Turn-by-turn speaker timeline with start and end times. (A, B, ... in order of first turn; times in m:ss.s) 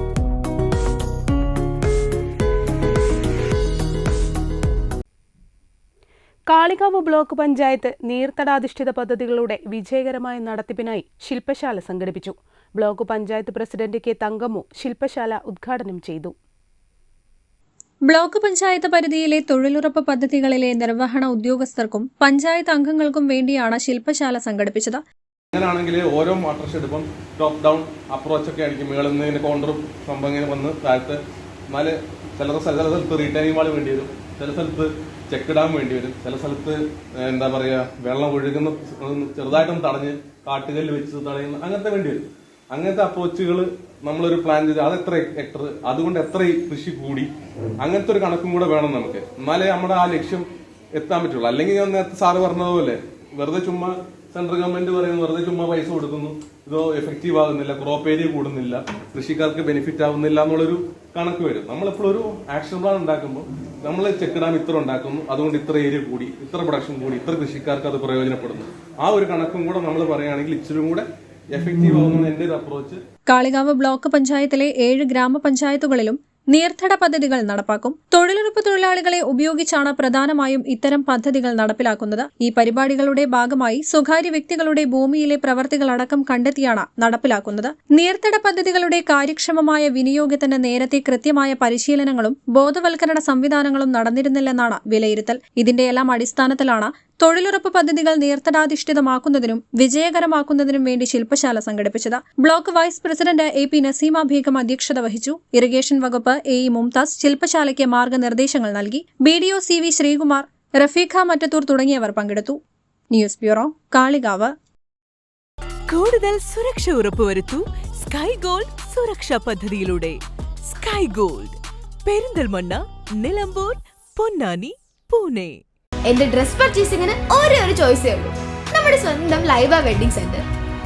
0:06.5-0:16.3 A
0:18.1-0:25.0 B
0:25.5-0:31.2 C
0:31.7-0:42.2 C
0:42.7-0:47.3 C
0:47.8-0:50.4 C
0:51.0-1:13.0 C
1:13.3-1:52.6 B
1:53.1-1:54.5 B
1:55.9-2:00.2 D
2:00.7-2:05.6 D
2:06.1-2:10.4 E